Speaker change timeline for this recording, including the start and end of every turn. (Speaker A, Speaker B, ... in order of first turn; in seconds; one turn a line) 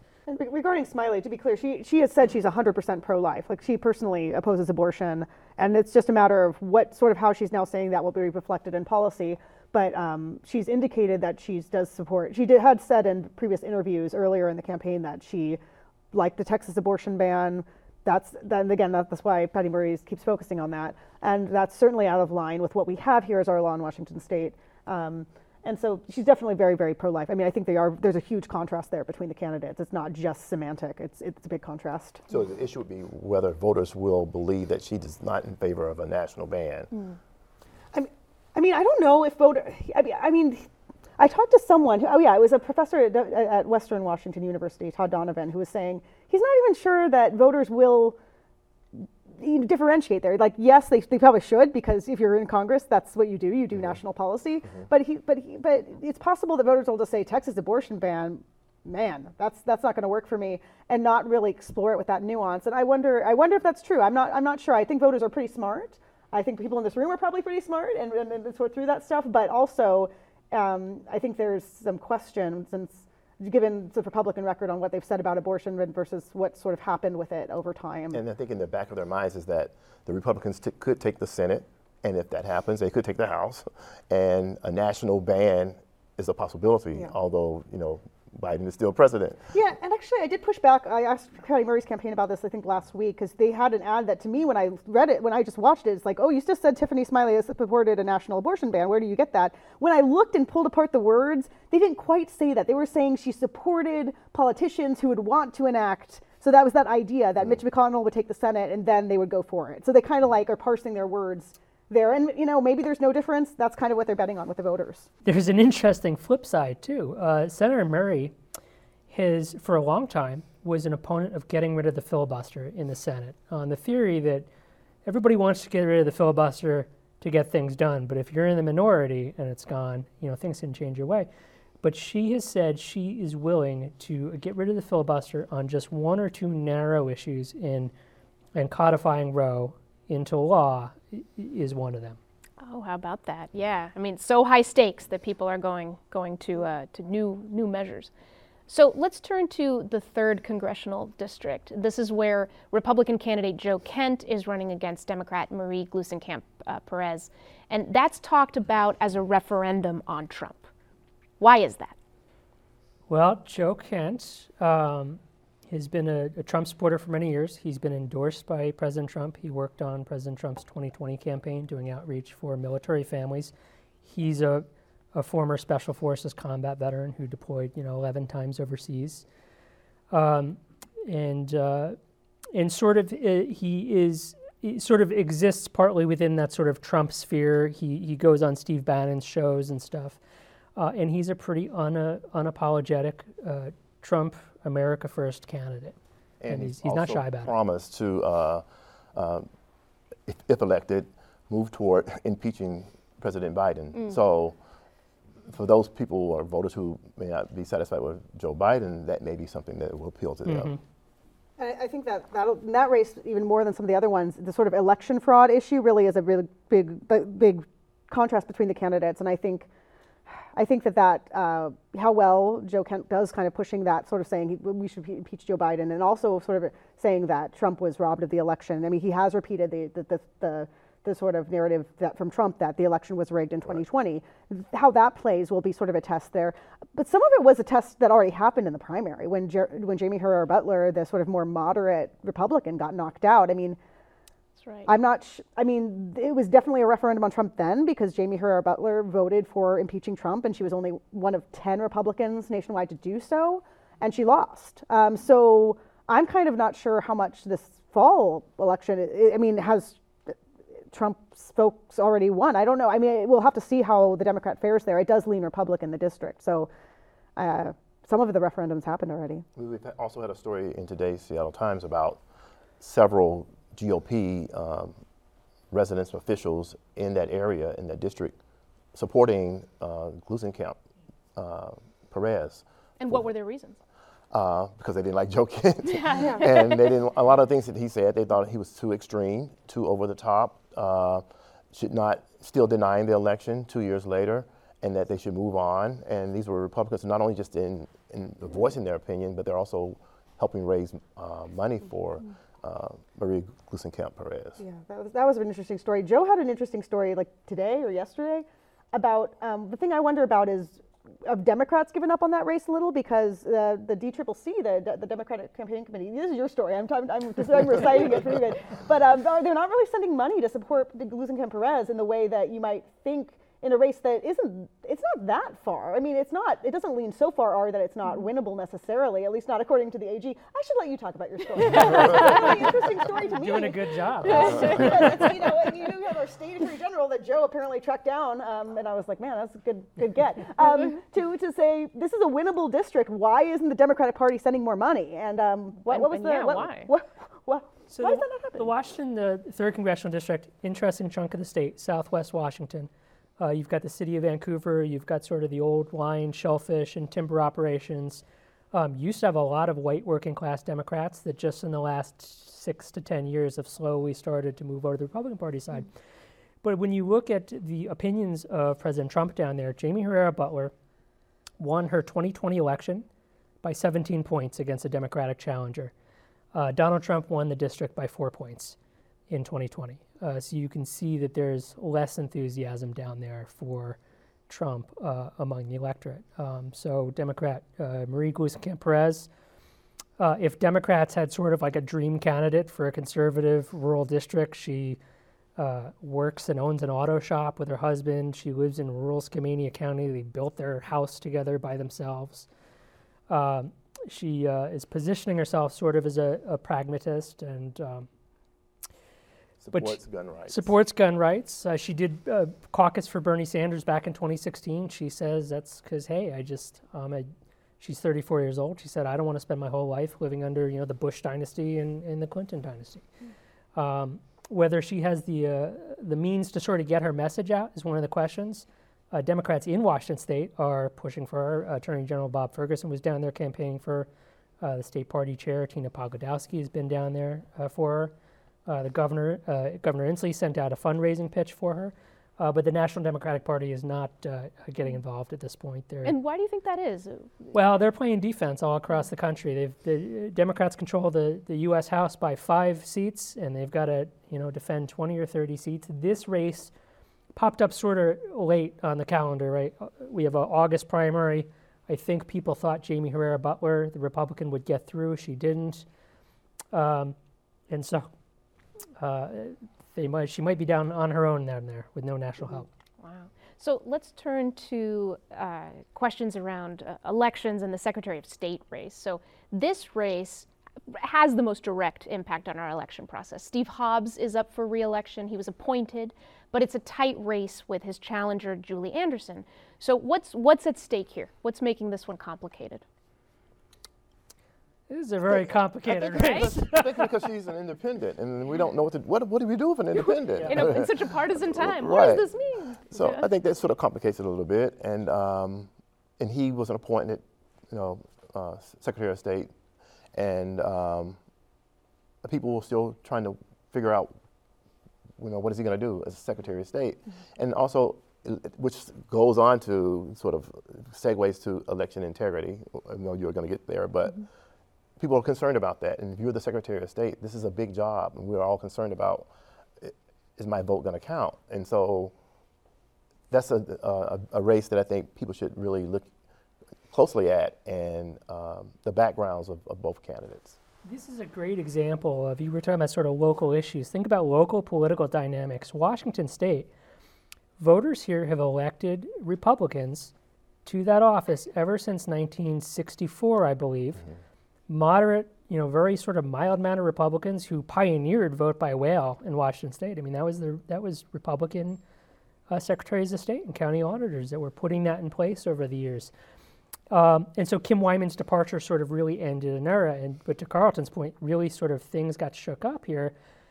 Speaker A: 0.3-15.6
Speaker A: 16.1-32.2
Speaker B: 32.3-36.9
Speaker A: 37.9-40.7
Speaker A: 41.2-48.2
Speaker A: 49.0-78.2
Speaker B: 78.1-89.5
Speaker A: 89.5-115.1
Speaker C: 115.2-118.3
Speaker C: 119.1-124.5
Speaker C: 125.1-131.3
Speaker C: 131.8-137.9
Speaker C: 138.6-142.2
Speaker D: 142.6-148.1
Speaker D: 148.7-160.7
Speaker D: 161.4-161.9
Speaker C: 163.1-173.5
Speaker C: 174.1-179.2
Speaker C: 180.1-182.0
Speaker C: 182.5-190.2
Speaker C: 190.8-196.0
Speaker B: 196.4-199.5
Speaker C: 196.5-197.5
Speaker B: 200.3-204.6
Speaker B: 205.5-210.8
Speaker C: 210.5-210.8
Speaker A: 211.6-219.7
Speaker A: 220.5-243.8
Speaker D: 244.6-244.9
Speaker A: 244.9-260.4
Speaker A: 260.9-266.7
Speaker A: 267.4-269.4
Speaker B: 269.6-272.2
Speaker B: 272.8-275.0
Speaker B: 275.7-278.4
Speaker B: 278.9-280.8
Speaker B: 281.4-283.2
Speaker D: 283.0-283.8
Speaker B: 284.3-304.6
Speaker D: 285.9-286.9
Speaker A: 304.6-348.7
Speaker D: 331.7-332.4
Speaker C: 333.3-335.3
Speaker D: 334.4-335.2
Speaker D: 345.9-346.9
Speaker C: 347.9-365.9
Speaker C: 366.6-370.7
Speaker C: 371.6-373.1
Speaker C: 373.6-375.9
Speaker C: 376.5-378.8
Speaker C: 379.3-384.0
Speaker C: 384.5-389.3
Speaker C: 390.2-395.0
Speaker C: 395.6-402.5
Speaker C: 403.3-408.1
Speaker B: 409.6-410.7
Speaker C: 409.7-417.3
Speaker C: 417.8-423.1
Speaker C: 423.8-434.1
Speaker C: 434.6-438.1
Speaker C: 438.7-446.1
Speaker D: 446.0-447.5
Speaker C: 447.5-456.7
Speaker C: 457.4-465.9
Speaker C: 466.7-467.2
Speaker C: 467.7-468.1
Speaker C: 469.0-472.7
Speaker D: 473.0-492.8
Speaker C: 494.9-496.9
Speaker B: 495.9-502.3
Speaker D: 496.1-496.5
Speaker D: 500.0-503.3
Speaker B: 502.9-509.5
Speaker B: 510.1-511.2
Speaker B: 512.2-514.1
Speaker B: 515.2-524.3
Speaker B: 525.0-529.3
Speaker B: 529.8-532.1
Speaker B: 533.3-536.1
Speaker B: 536.9-540.6
Speaker C: 540.9-546.7
Speaker C: 547.6-550.1
Speaker C: 550.6-554.0
Speaker C: 554.7-561.8
Speaker C: 562.5-566.1
Speaker C: 566.9-573.1